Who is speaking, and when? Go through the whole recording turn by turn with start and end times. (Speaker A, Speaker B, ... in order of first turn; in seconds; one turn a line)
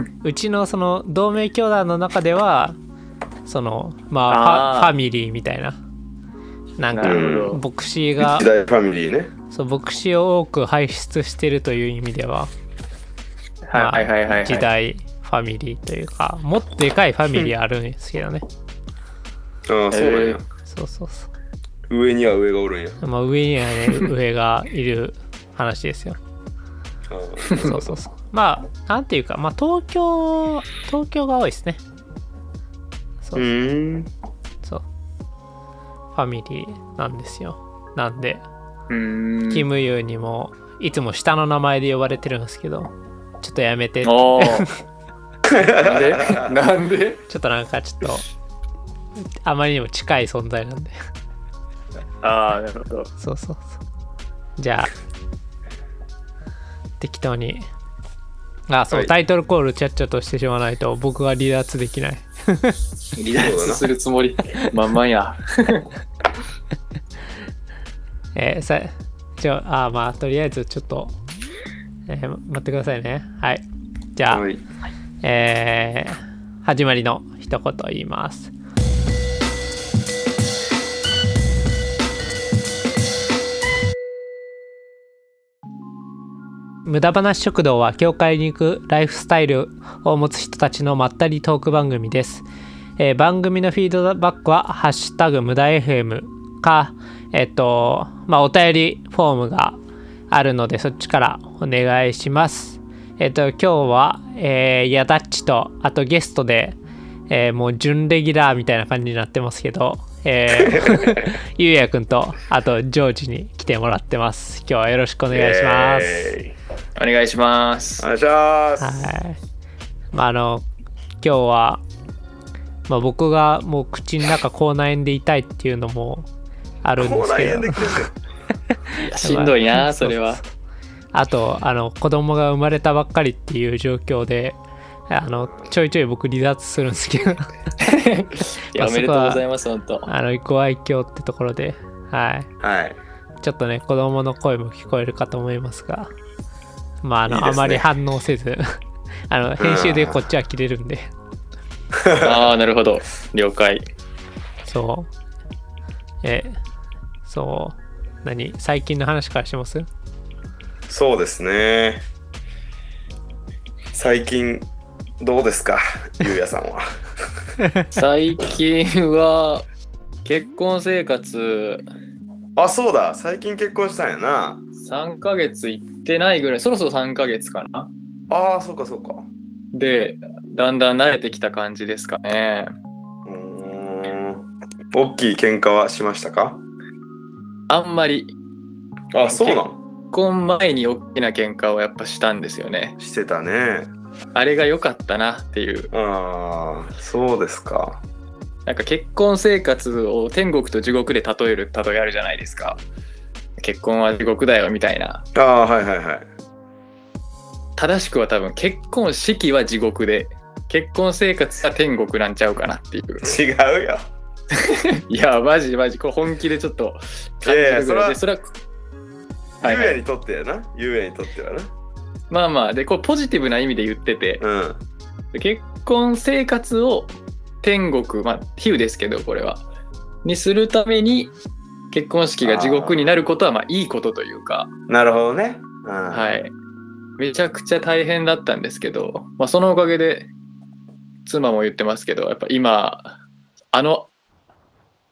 Speaker A: 0.2-2.8
Speaker A: 3.5-5.8
Speaker B: 4.3-4.9
Speaker A: 6.8-8.5
Speaker B: 6.9-7.6
Speaker C: 7.0-7.6
Speaker C: 8.2-9.3
Speaker A: 9.5-12.5
Speaker B: 13.7-14.7
Speaker A: 13.8-18.4
Speaker C: 19.7-20.5
Speaker B: 19.9-20.4
Speaker A: 20.7-21.3
Speaker C: 21.9-23.0
Speaker A: 23.0-26.2
Speaker C: 27.1-28.0
Speaker A: 27.6-31.8
Speaker A: 33.2-33.5
Speaker C: 33.4-34.1
Speaker A: 36.1-38.4
Speaker B: 38.9-39.7
Speaker A: 39.5-44.7
Speaker B: 44.0-44.7
Speaker C: 45.5-46.5
Speaker B: 45.8-47.2
Speaker A: 47.3-48.2
Speaker A: 49.4-50.9
Speaker B: 52.2-53.1
Speaker A: 53.2-53.8
Speaker A: 54.6-54.9
Speaker A: 57.0-57.7
Speaker A: 58.7-62.8
Speaker B: 63.1-65.9
Speaker C: 63.4-63.9
Speaker A: 68.3-71.2
Speaker A: 72.1-73.7
Speaker A: 74.2-74.5
Speaker C: 74.3-74.6
Speaker A: 75.2-78.5
Speaker A: 86.8-92.5
Speaker A: 93.0-99.8
Speaker A: 100.3-106.8
Speaker A: 107.3-116.4
Speaker C: 110.6-111.2
Speaker C: 115.3-116.5
Speaker B: 117.0-118.1
Speaker C: 118.0-119.0
Speaker A: 118.8-119.4
Speaker A: 120.1-120.7
Speaker A: 121.2-121.8
Speaker A: 122.9-126.3
Speaker A: 126.8-128.0
Speaker C: 127.0-128.1
Speaker A: 128.9-130.4
Speaker B: 129.0-130.4
Speaker A: 131.1-134.6
Speaker A: 135.1-137.5
Speaker B: 137.8-140.1
Speaker A: 138.8-139.4
Speaker A: 140.1-142.5
Speaker C: 142.6-143.0
Speaker A: 143.4-146.1
Speaker A: 147.0-148.7
Speaker C: 147.3-147.9
Speaker A: 149.3-151.1
Speaker C: 149.6-150.2
Speaker C: 151.9-152.5
Speaker B: 152.2-153.9
Speaker A: 154.7-155.1
Speaker A: 156.2-156.6
Speaker A: 157.2-159.9
Speaker C: 160.9-162.0
Speaker C: 163.9-164.7
Speaker C: 165.2-166.9
Speaker A: 167.6-167.9
Speaker B: 167.9-169.7
Speaker B: 170.2-171.8
Speaker C: 172.6-174.6
Speaker B: 174.8-177.9
Speaker C: 178.3-179.3
Speaker B: 179.7-182.7
Speaker C: 183.2-186.6
Speaker B: 187.7-188.3
Speaker C: 189.1-189.8
Speaker B: 189.3-193.0
Speaker C: 193.0-193.9
Speaker B: 194.3-195.9
Speaker C: 195.9-198.0
Speaker B: 198.7-202.8
Speaker B: 203.6-205.2
Speaker C: 205.3-206.3
Speaker B: 207.8-213.4
Speaker C: 213.2-214.1
Speaker B: 214.6-218.4
Speaker C: 217.4-218.2
Speaker B: 219.6-220.0
Speaker C: 219.6-221.7
Speaker B: 222.3-224.4
Speaker C: 224.4-224.8
Speaker B: 225.3-229.7
Speaker B: 230.2-231.3
Speaker B: 231.9-234.7
Speaker C: 232.4-233.1
Speaker C: 234.9-236.3
Speaker B: 236.1-236.5
Speaker B: 237.2-240.3
Speaker B: 241.3-243.2
Speaker B: 243.7-244.1